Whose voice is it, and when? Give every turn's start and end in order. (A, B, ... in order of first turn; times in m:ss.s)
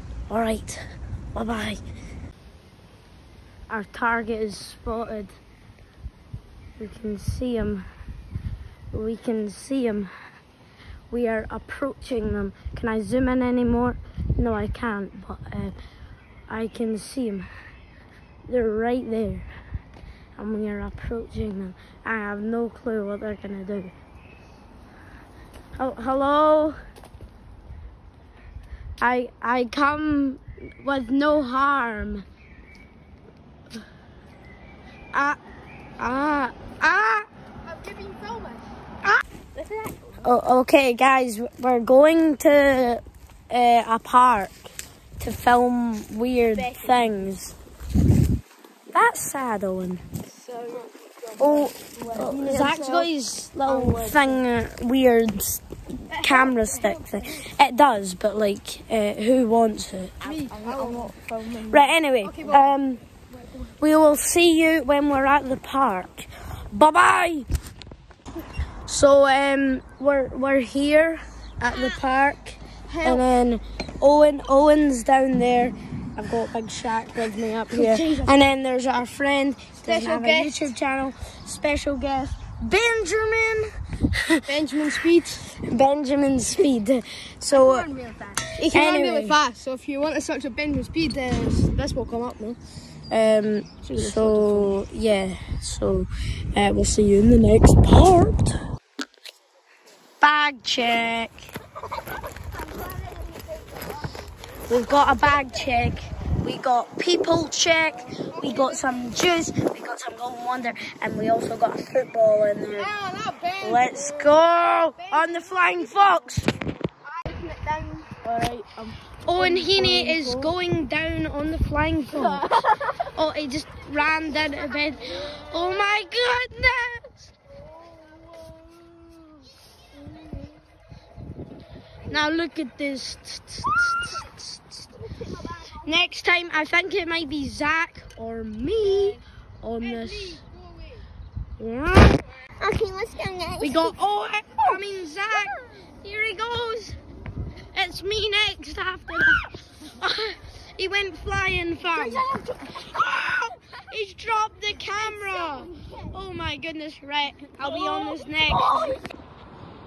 0:00.3-0:01.8 A
0:03.7-0:05.4 A
0:06.8-0:07.9 A
0:08.9-0:10.1 A
0:11.1-0:15.7 A
0:16.5-0:17.5 A
0:18.5-0:19.5 A
0:20.4-0:23.9 A
0:25.8-0:26.8 A
0:29.0-0:32.2 A
0:35.1-0:35.4 A
0:36.0-0:37.3 A
0:37.6-0:38.6 B
0:39.6-0:40.2 C
0:40.2-0:47.6 A
0:46.6-0:46.9 C
0:48.9-0:50.0 A
0:50.4-0:52.3 C
0:51.4-1:00.2 A
0:51.4-0:53.1 B
0:53.7-0:54.4 B
0:56.2-0:57.2 B
1:00.2-1:02.7 B
1:00.2-1:01.9 C
1:01.7-1:03.0 A
1:03.8-1:07.5 A
1:08.8-1:24.8 A
1:12.9-1:13.3 B
1:17.7-1:18.4 B
1:19.8-1:20.6 B
1:24.5-1:25.4 B
1:25.5-1:27.9 A
1:27.5-1:32.6 B
1:28.6-1:29.4 A
1:33.1-1:38.6 A
1:33.8-1:34.7 B
1:40.2-1:41.5 A
1:42.8-1:43.6 C
1:44.7-1:52.9 A
1:48.3-1:49.0 B
1:52.8-1:54.3 B
1:53.6-1:56.5 A
1:55.0-1:56.2 B
1:57.2-1:57.7 C
1:57.3-1:58.1 B
1:58.2-2:07.3 A
1:59.4-2:00.4 B
2:02.6-2:03.0 C
2:12.1-2:14.9 A
2:15.6-2:20.4 A
2:19.8-2:21.0 B
2:21.6-2:22.2 A
2:22.6-2:24.0 C
2:23.6-2:27.0 A
2:27.7-2:39.0 A
2:32.2-2:32.6 C